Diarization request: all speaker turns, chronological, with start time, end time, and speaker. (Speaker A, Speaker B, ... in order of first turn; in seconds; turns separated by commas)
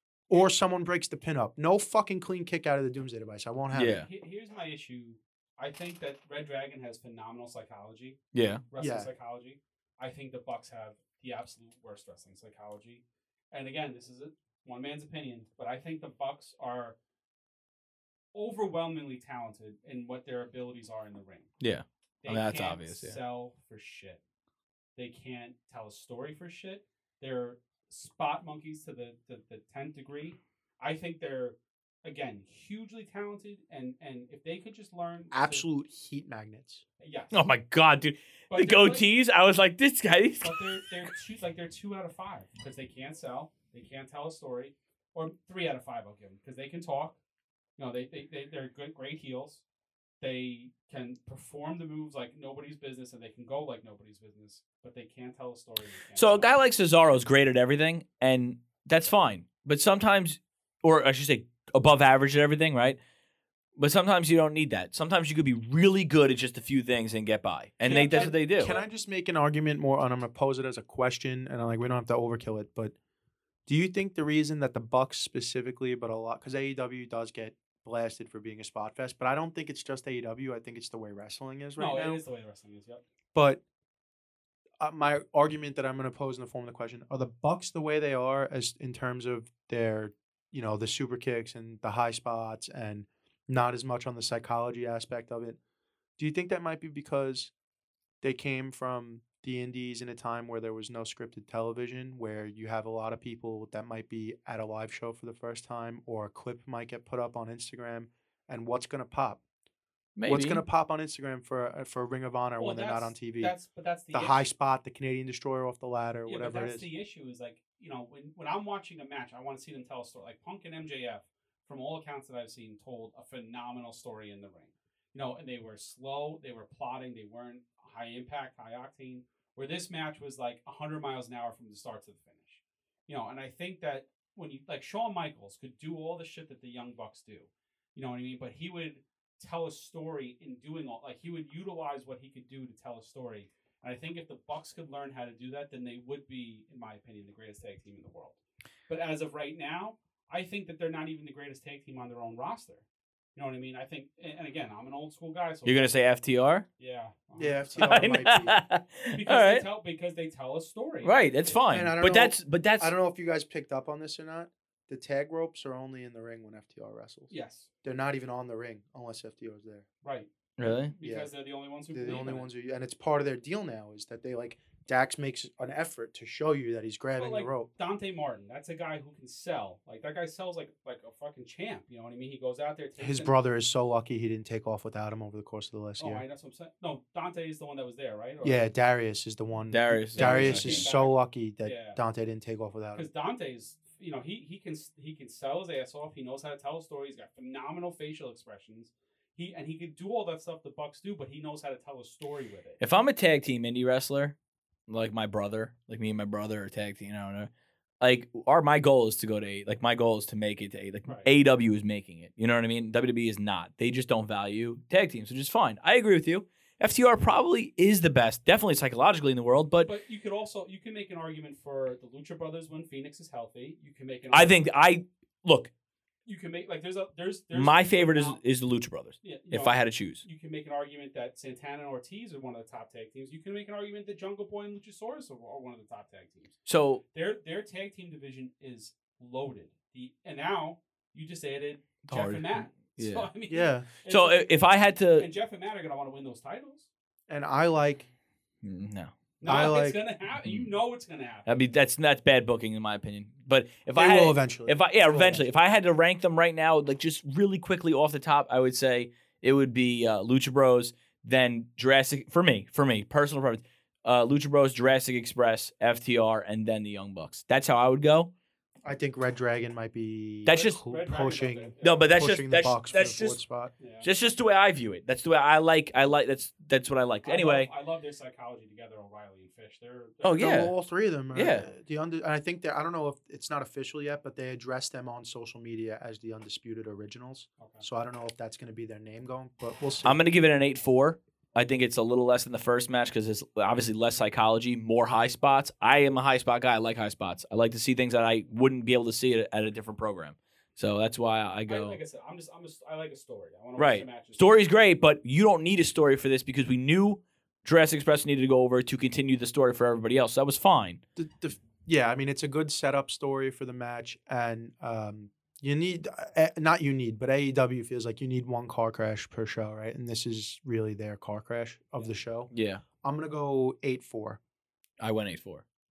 Speaker A: 0.3-4.0, Speaker B: 3.7-4.1, Speaker C: 3.8-8.2, Speaker B: 8.3-8.6, Speaker C: 8.7-16.9, Speaker A: 8.8-9.1, Speaker C: 18.3-21.5, Speaker B: 21.6-23.2, Speaker C: 22.2-24.2, Speaker C: 24.9-35.6, Speaker A: 35.3-36.8, Speaker C: 37.0-37.5, Speaker B: 37.3-41.1, Speaker C: 38.5-39.0, Speaker C: 40.4-47.2, Speaker C: 47.8-49.6, Speaker C: 50.2-56.5, Speaker B: 56.1-63.0, Speaker B: 63.8-68.7, Speaker C: 67.8-68.8, Speaker A: 67.9-72.9, Speaker A: 73.7-82.2, Speaker C: 81.8-83.0, Speaker A: 83.3-83.6, Speaker A: 84.8-95.6, Speaker A: 96.2-97.5, Speaker A: 98.2-109.4, Speaker B: 110.2-110.6, Speaker A: 110.2-113.5, Speaker C: 112.6-114.5, Speaker A: 114.1-116.9, Speaker C: 116.3-148.4, Speaker C: 148.9-155.9, Speaker B: 155.6-156.7, Speaker C: 156.8-158.4, Speaker A: 157.4-158.6, Speaker B: 157.8-159.6, Speaker C: 159.1-161.2, Speaker B: 161.0-162.9, Speaker A: 161.7-167.3, Speaker C: 167.3-167.7, Speaker A: 167.8-169.8, Speaker C: 170.0-172.5, Speaker B: 170.6-170.9, Speaker A: 171.0-171.3, Speaker A: 171.9-177.7, Speaker C: 177.2-183.3, Speaker A: 183.0-186.2, Speaker C: 186.0-188.7, Speaker A: 188.4-193.0, Speaker B: 189.7-190.9, Speaker C: 190.1-192.0, Speaker C: 192.9-202.8, Speaker B: 202.8-204.3, Speaker B: 204.9-207.5, Speaker B: 208.0-219.9, Speaker C: 219.8-224.6, Speaker B: 224.3-225.7, Speaker C: 226.2-228.4, Speaker B: 227.5-230.2, Speaker C: 229.2-236.6, Speaker B: 236.7-237.0, Speaker C: 237.1-244.5, Speaker B: 242.1-243.3, Speaker A: 243.5-243.9, Speaker B: 244.1-245.3, Speaker C: 245.2-246.9, Speaker A: 247.3-248.1, Speaker B: 248.6-249.1, Speaker C: 249.4-251.5, Speaker A: 249.4-250.0, Speaker B: 250.4-250.7, Speaker B: 251.4-268.3, Speaker A: 253.9-255.5, Speaker A: 268.8-273.7, Speaker B: 270.4-270.8, Speaker C: 270.5-272.1, Speaker B: 271.8-273.4, Speaker C: 273.8-274.1, Speaker B: 274.0-277.7, Speaker C: 277.2-280.5, Speaker B: 280.2-280.7, Speaker A: 280.4-290.2, Speaker B: 281.3-281.7, Speaker C: 287.6-287.8, Speaker B: 290.0-302.0, Speaker C: 301.7-304.6, Speaker B: 303.8-311.0, Speaker A: 311.1-322.5, Speaker B: 322.5-322.8, Speaker A: 323.0-324.4, Speaker B: 325.0-325.6